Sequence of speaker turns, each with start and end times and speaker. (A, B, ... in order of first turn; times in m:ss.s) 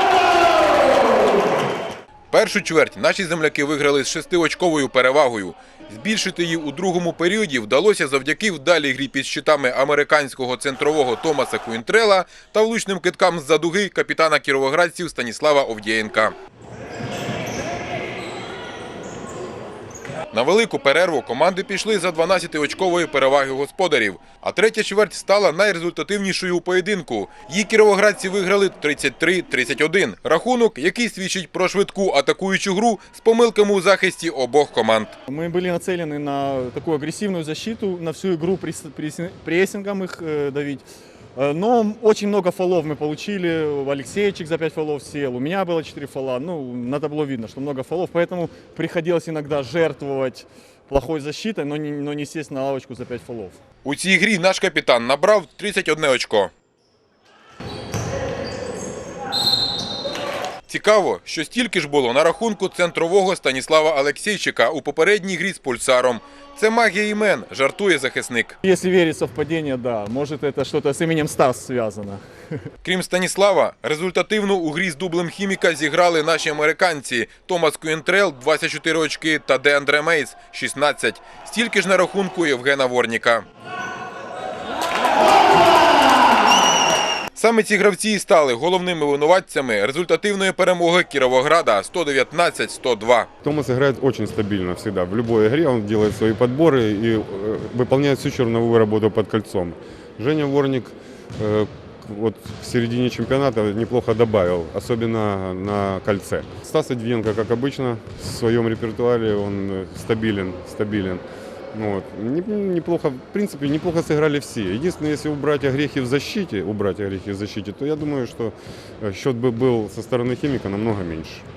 0:02.3-0:16.4 A
0:20.3-0:35.2 A
0:35.3-0:40.8 B
0:41.4-0:53.6 B
0:53.8-0:56.5 A
1:00.7-1:08.6 A
1:08.6-1:12.2 B
1:12.8-1:23.4 A
1:27.4-1:33.3 A
1:33.4-2:01.4 C